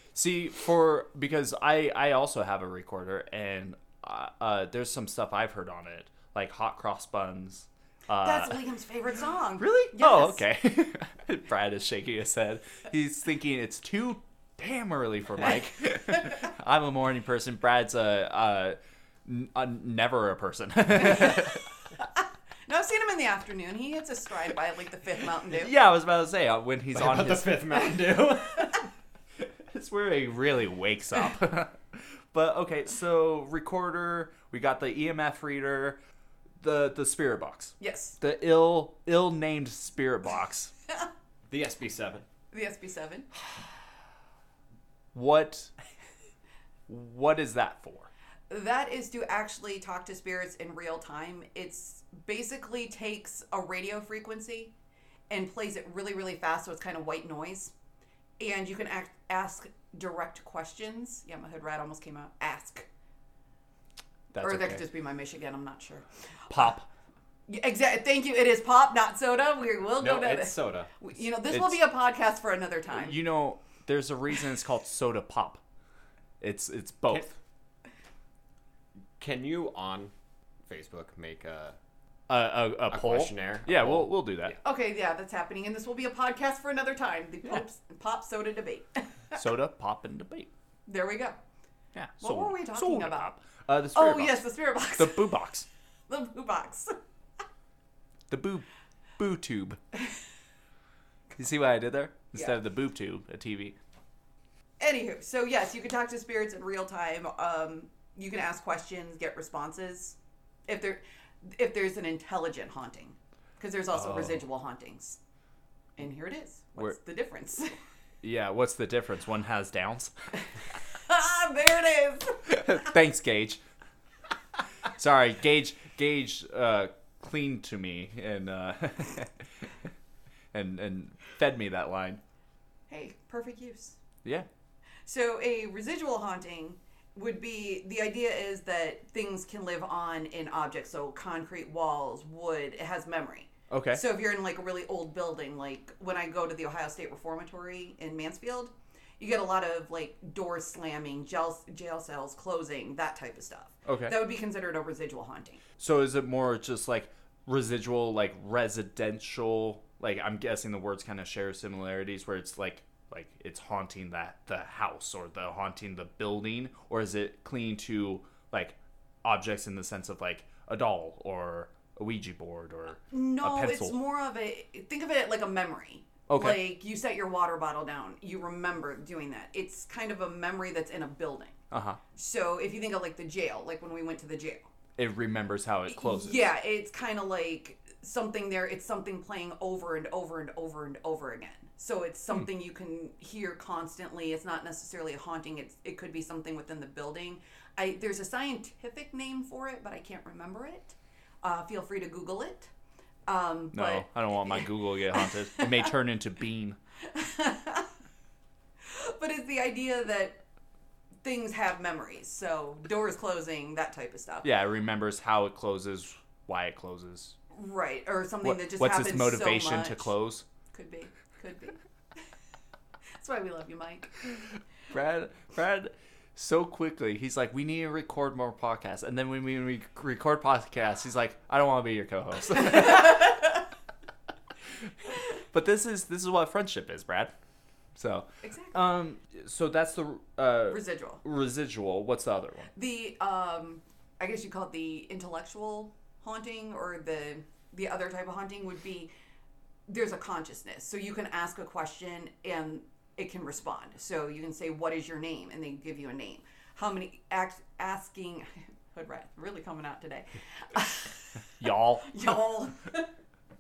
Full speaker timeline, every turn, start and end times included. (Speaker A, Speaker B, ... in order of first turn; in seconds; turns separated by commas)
Speaker A: 0.1-8.6, Speaker B: 8.2-10.4, Speaker A: 9.6-21.6, Speaker B: 21.1-21.4, Speaker B: 22.7-25.7, Speaker A: 25.5-27.7, Speaker C: 26.9-28.9, Speaker A: 29.7-36.0, Speaker A: 36.6-40.7, Speaker B: 37.8-38.2, Speaker C: 41.5-42.3, Speaker B: 42.5-43.3, Speaker A: 45.1-45.7, Speaker A: 46.9-48.1, Speaker B: 48.5-54.7, Speaker B: 55.3-57.7, Speaker B: 58.4-62.9, Speaker A: 64.3-64.8, Speaker B: 64.4-66.7, Speaker A: 66.5-66.9, Speaker B: 67.5-73.2, Speaker C: 70.0-70.9, Speaker A: 71.5-71.8, Speaker A: 72.9-75.6, Speaker A: 76.4-77.3, Speaker C: 79.2-80.1, Speaker C: 80.7-81.8, Speaker A: 82.3-84.6, Speaker C: 82.9-84.5, Speaker B: 84.6-89.4, Speaker A: 89.3-90.5, Speaker B: 90.9-91.4, Speaker A: 92.0-95.7, Speaker B: 92.2-93.3, Speaker B: 94.0-95.4, Speaker B: 96.1-97.0, Speaker A: 98.3-99.8, Speaker A: 101.4-103.8, Speaker B: 104.8-110.2, Speaker B: 110.7-115.2, Speaker A: 114.0-114.4, Speaker B: 116.0-117.8, Speaker A: 118.2-120.1, Speaker B: 120.9-122.6, Speaker A: 122.5-123.6, Speaker A: 125.0-129.7, Speaker A: 130.5-132.2, Speaker B: 132.9-134.0, Speaker B: 135.1-155.6, Speaker A: 143.7-144.0, Speaker A: 153.9-154.2, Speaker A: 155.8-174.0, Speaker B: 173.1-181.6, Speaker A: 176.3-176.6, Speaker A: 181.7-182.0, Speaker B: 182.2-184.7, Speaker A: 185.0-186.5, Speaker B: 185.9-202.7, Speaker B: 203.3-205.9, Speaker A: 203.7-206.8, Speaker B: 207.1-207.9, Speaker B: 208.8-210.4, Speaker B: 211.2-214.5, Speaker A: 214.4-217.4, Speaker B: 217.5-220.1, Speaker A: 218.4-220.4, Speaker B: 220.7-221.8, Speaker B: 223.2-224.1, Speaker A: 224.9-233.4, Speaker B: 232.7-233.3, Speaker A: 235.5-237.3, Speaker A: 237.9-242.7, Speaker B: 238.4-238.8, Speaker B: 240.7-241.2, Speaker B: 242.8-249.1, Speaker B: 249.9-261.4, Speaker A: 261.6-262.3, Speaker B: 262.1-263.1